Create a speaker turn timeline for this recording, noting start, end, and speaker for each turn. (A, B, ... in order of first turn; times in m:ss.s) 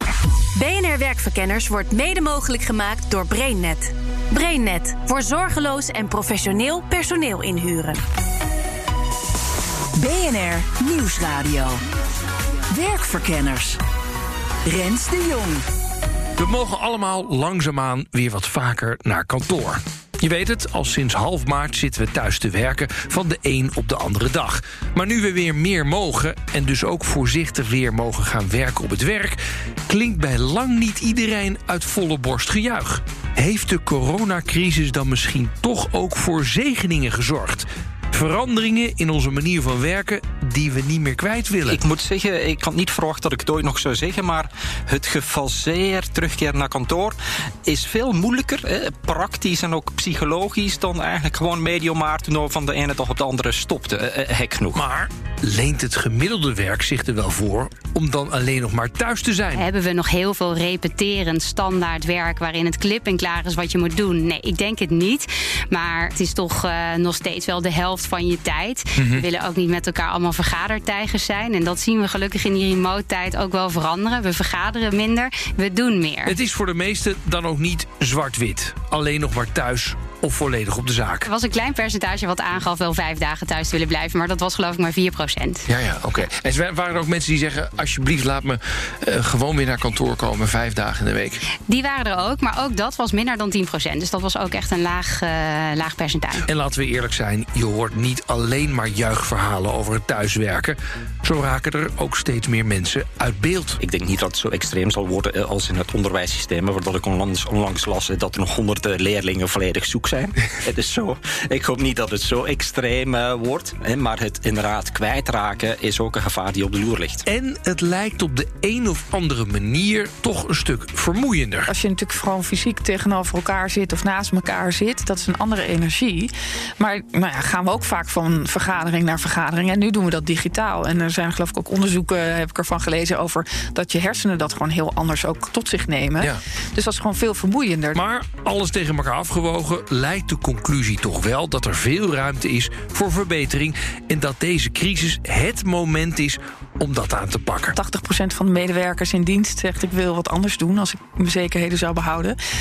0:00.5-0:08.0 A
0:10.0-0:11.8 B
0:12.7-0:13.8 B
0:14.6-0:15.6 B
0:16.4-0:41.8 C
0:41.7-0:54.8 D
0:54.7-0:59.6 C
0:59.6-1:16.4 E
1:09.0-1:09.2 C
1:16.2-1:21.3 C
1:21.2-1:25.7 E
1:25.7-1:31.4 C
1:31.7-1:36.4 E
1:36.4-1:43.8 C
1:43.8-1:57.2 D
1:57.2-2:01.7 C
2:01.7-2:18.0 F
2:17.9-2:27.8 C
2:27.8-2:32.4 F